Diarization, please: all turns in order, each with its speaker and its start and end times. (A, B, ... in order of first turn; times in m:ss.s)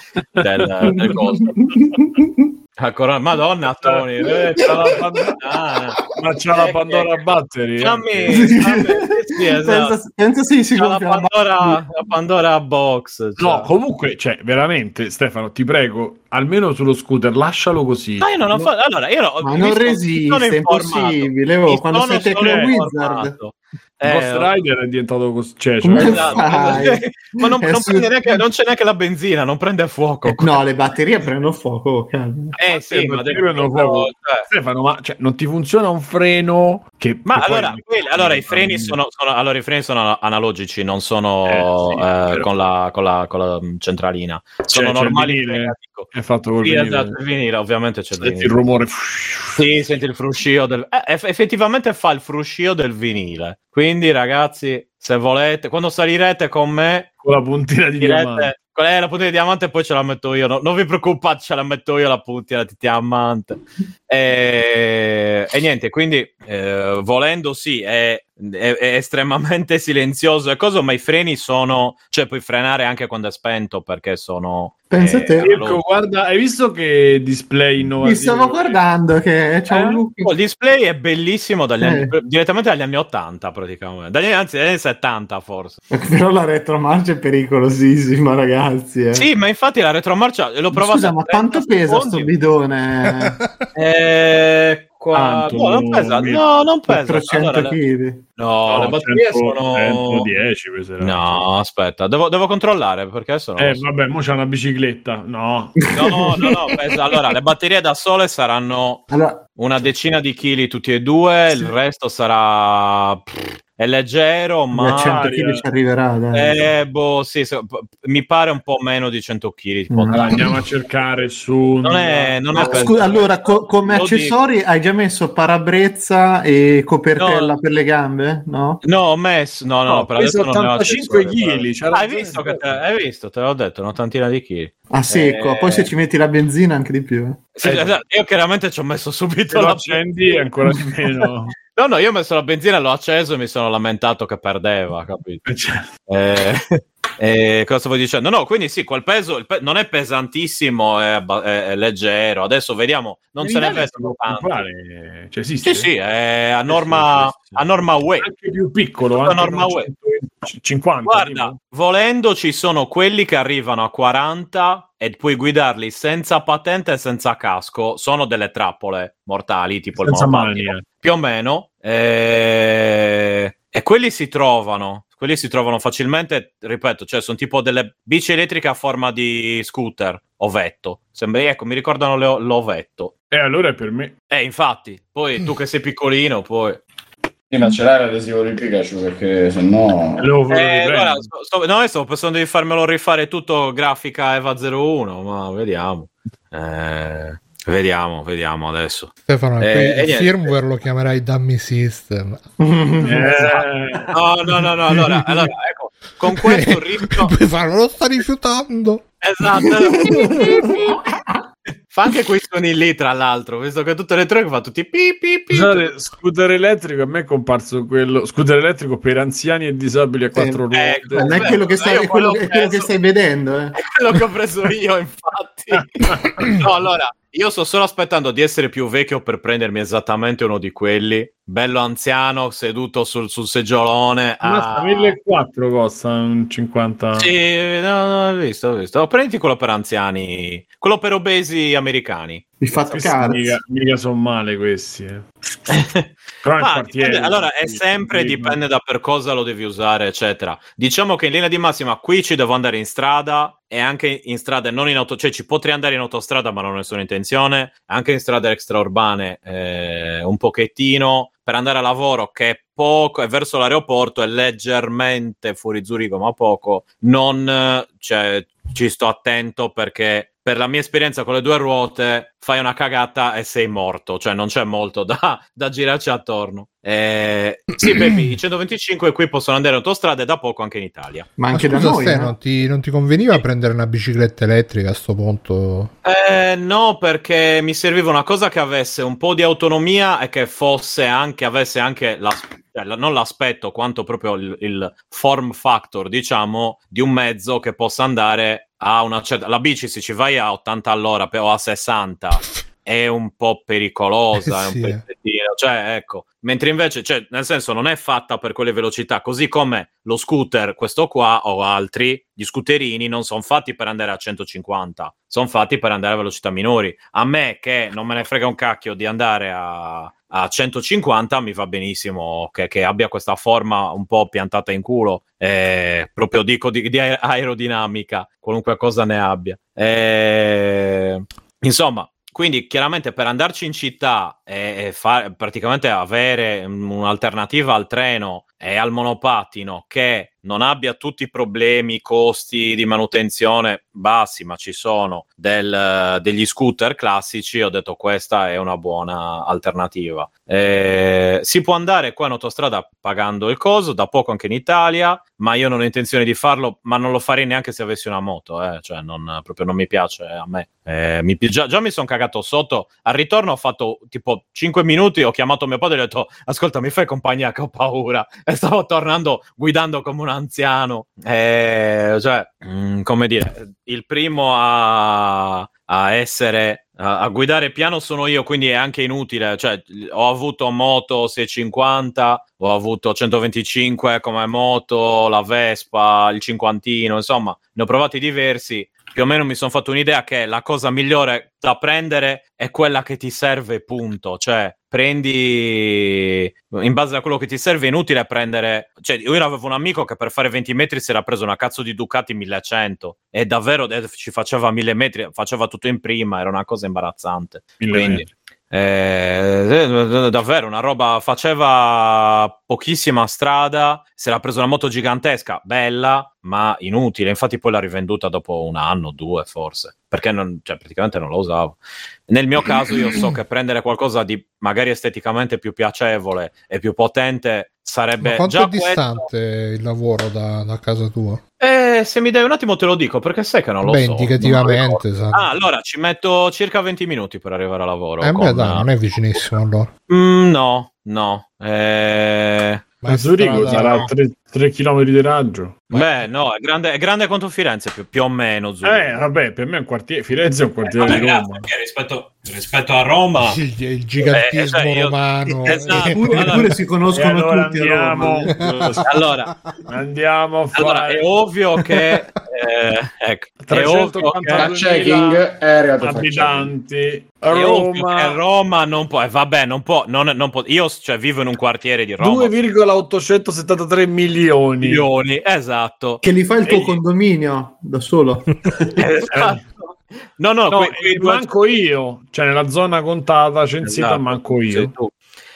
0:00.4-0:01.6 A
0:00.4-0:01.0 B
0:00.9-0:02.5 C
0:02.8-0:04.7 A
0:03.8-0:05.4 B
0:05.4-0:06.0 A
0:06.1-0:08.5 B
0:06.6-0:07.2 A
0:07.8-0:10.0 A
0:08.3-0:09.0 C
0:09.6-0:11.8 C
0:10.8-0:13.7 A
0:13.4-0:18.3 B
0:18.2-0:24.5 A
0:19.4-0:23.4 C
0:22.4-0:22.7 B
0:24.0-0:26.8 B
0:25.8-0:28.5 C
0:25.9-0:30.6 A
0:30.3-0:32.5 C
0:32.6-0:34.5 A
0:32.7-0:39.0 B
0:37.3-0:46.1 A
0:41.5-0:42.5 B
0:44.7-0:47.2 B
0:46.6-0:48.5 A
0:48.2-0:49.7 B
0:49.6-0:57.1 A
0:57.2-0:58.5 B
0:58.0-1:15.8 A
1:14.9-1:15.5 C
1:15.4-1:18.8 B
1:18.0-1:20.3 C
1:19.7-1:25.8 A
1:21.8-1:22.1 C
1:25.9-1:29.3 C
1:29.1-1:32.3 A
1:30.7-1:33.4 C
1:33.3-1:33.5 D
1:33.8-1:37.8 A
1:35.1-1:35.6 C
1:35.5-1:36.4 B
1:36.9-1:38.2 C
1:38.4-1:40.3 A
1:38.7-1:41.4 B
1:41.0-1:43.8 A
1:43.6-1:45.9 B
1:45.9-1:49.0 A
1:46.0-1:46.4 C
1:49.1-1:49.4 C
1:49.6-1:55.2 A
1:54.7-1:56.6 C
1:55.0-1:55.6 B
1:56.3-2:00.2 A
1:59.9-2:00.6 C
2:00.1-2:03.2 B
2:01.8-2:03.4 A
2:02.5-2:08.8 C
2:03.9-2:04.4 A
2:07.2-2:07.5 A
2:08.8-2:15.9 A
2:09.9-2:12.8 B
2:14.9-2:17.4 C
2:17.6-2:20.0 A
2:17.6-2:18.0 B
2:19.5-2:21.6 B
2:21.8-2:25.4 A
2:25.4-2:25.9 B
2:26.1-2:34.6 A
2:33.4-2:35.9 B
2:35.6-2:38.3 A
2:36.7-2:41.6 B
2:39.2-2:39.9 A
2:41.1-3:03.1 A
2:50.0-2:50.8 B
3:03.3-3:04.1 B
3:04.3-3:06.8 A
3:07.5-3:10.3 E
3:10.2-3:11.3 B
3:10.5-3:20.6 A
3:19.3-3:22.4 D
3:22.6-3:23.5 C
3:23.0-3:24.1 B
3:24.1-3:27.3 A
3:26.4-3:29.1 D
3:29.2-3:30.9 A
3:30.0-3:30.8 C
3:30.2-3:30.9 D
3:31.9-3:35.9 A
3:35.5-3:41.6 B
3:40.4-3:40.6 C
3:40.7-3:42.9 A
3:41.2-3:43.8 C
3:43.8-3:45.9 A
3:45.7-3:46.5 B
3:46.5-3:55.2 A
3:54.4-3:57.3 B
3:57.2-4:02.4 A
4:02.6-4:03.6 C
4:02.9-4:05.2 B
4:05.7-4:41.3 A
4:06.4-4:08.6 B
4:41.4-4:42.3 C
4:41.5-4:45.9 D
4:46.0-7:01.8 A
5:04.4-5:05.0 D
6:47.8-6:48.3 B
7:02.3-7:09.3 A
7:08.2-7:11.4 D
7:11.6-7:18.9 A
7:13.8-7:15.5 D
7:18.2-7:19.9 D
7:20.1-7:22.8 A
7:23.0-7:24.0 D
7:23.1-7:26.2 B
7:23.6-7:24.1 A
7:25.9-7:29.2 A
7:28.8-7:31.7 B
7:31.0-7:33.6 A
7:33.4-7:36.6 D
7:34.2-7:36.7 A
7:35.9-7:38.6 C
7:37.1-7:38.6 B
7:38.7-7:39.6 D
7:39.0-7:39.5 A
7:39.9-7:41.2 B
7:40.8-7:44.7 A
7:43.6-7:45.4 B
7:44.6-7:46.7 E
7:46.0-7:48.4 B
7:47.5-7:52.5 A
7:52.2-7:55.1 B
7:54.8-7:57.0 A
7:56.2-7:58.5 C
7:59.0-8:01.5 A
7:59.3-7:59.6 B
8:00.7-8:04.9 B
8:03.8-8:05.1 A